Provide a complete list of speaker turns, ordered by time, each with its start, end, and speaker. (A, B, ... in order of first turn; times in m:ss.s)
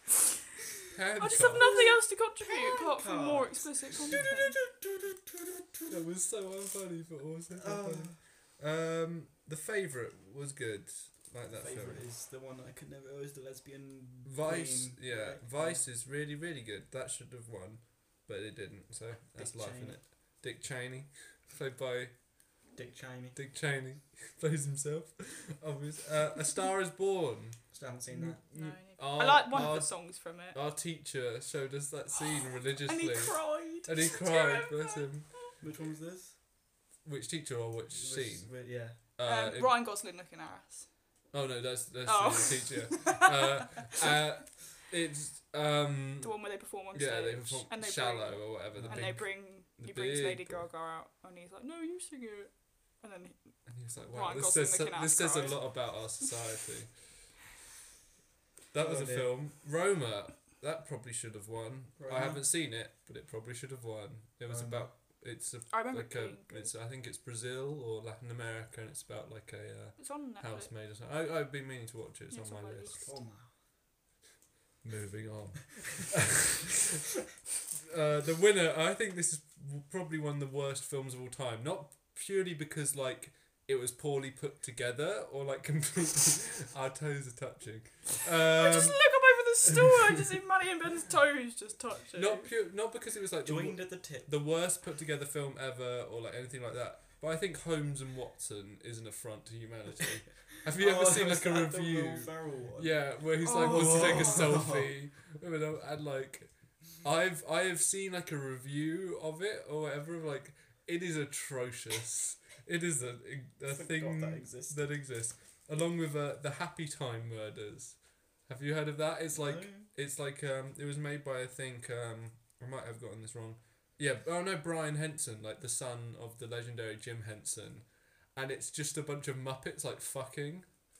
0:00.9-0:01.8 A
0:01.2-0:04.6 B
0:01.6-0:01.9 C
0:02.4-0:06.0 C
0:05.9-0:12.0 A
0:07.5-0:08.2 C
0:11.6-0:15.8 C
0:14.2-0:22.2 A
0:19.4-0:20.0 C
0:22.7-0:23.4 C
0:23.3-0:35.3 A
0:27.7-0:28.4 C
0:28.5-0:30.6 B
0:29.5-0:29.8 C
0:32.2-0:35.9 B
0:35.6-0:36.4 C
0:37.0-0:39.8 A
0:37.9-0:39.0 C
0:39.2-0:40.9 B
0:41.3-0:50.7 A
0:42.0-0:44.2 B
0:46.2-0:56.3 B
0:48.7-0:49.1 C
0:53.7-0:57.3 A
0:58.7-1:13.0 A
0:58.8-0:59.4 C
1:02.0-1:02.5 C
1:04.5-1:04.9 C
1:05.7-1:06.7 B
1:10.0-1:10.7 B
1:12.3-1:13.1 B
1:13.0-1:13.5 C
1:14.8-1:17.0 A
1:17.7-1:30.2 A
1:28.4-1:32.5 B
1:32.1-2:10.7 A
1:33.4-1:34.3 C
1:40.6-1:44.9 C
1:43.4-1:44.5 B
1:53.7-1:54.9 C
1:59.3-1:59.9 C